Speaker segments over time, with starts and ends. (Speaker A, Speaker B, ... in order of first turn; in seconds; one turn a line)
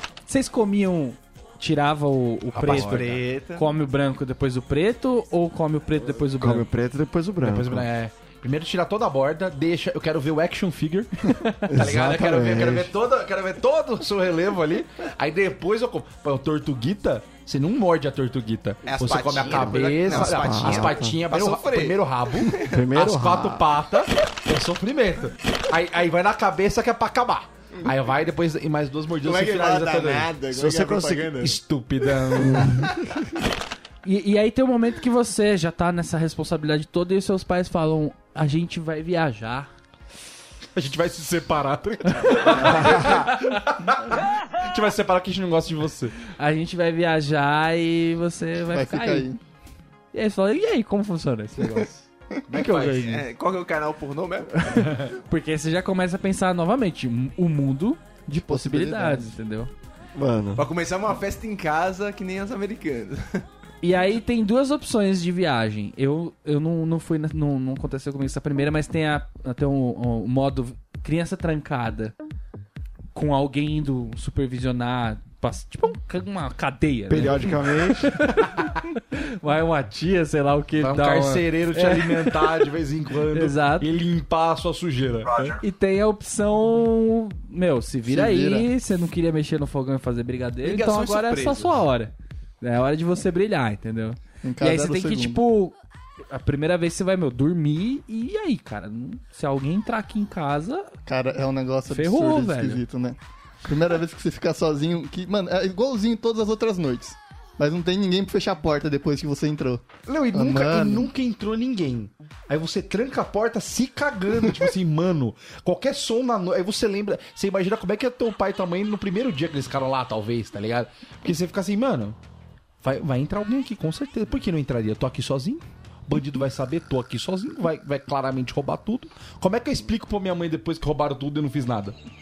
Speaker A: 0.3-6.7
Speaker B: 2.5-3.2
Speaker C: 2.6-3.7
Speaker D: 6.3-7.9
Speaker B: 7.4-11.1
Speaker A: 11.3-11.7
Speaker D: 11.7-12.9
Speaker B: 11.7-30.4
Speaker C: 18.8-22.8
Speaker D: 19.5-21.2
Speaker D: 22.6-23.7
Speaker C: 29.2-31.6
Speaker D: 30.5-31.5
Speaker B: 31.4-32.9
Speaker D: 32.4-32.9
Speaker A: 34.0-39.7
Speaker B: 40.7-46.1
Speaker A: 42.1-43.6
Speaker A: 46.4-49.3
Speaker E: 48.7-49.4
Speaker A: 50.1-53.2
Speaker B: 52.5-53.1
Speaker C: 52.9-54.8
Speaker A: 54.6-59.7
Speaker E: 58.5-59.3
Speaker D: 60.1-60.7
Speaker C: 60.5-63.5
Speaker A: 63.8-72.1
Speaker A: 73.1-82.7
Speaker D: 77.1-78.2
Speaker B: 80.8-85.5
Speaker A: 83.3-83.9
Speaker A: 85.6-95.8
Speaker E: 88.1-88.7
Speaker C: 90.6-91.8
Speaker E: 94.4-95.4
Speaker A: 96.3-100.9
Speaker E: 101.0-111.1
Speaker A: 101.9-102.8
Speaker B: 110.0-122.2
Speaker B: 122.8-131.9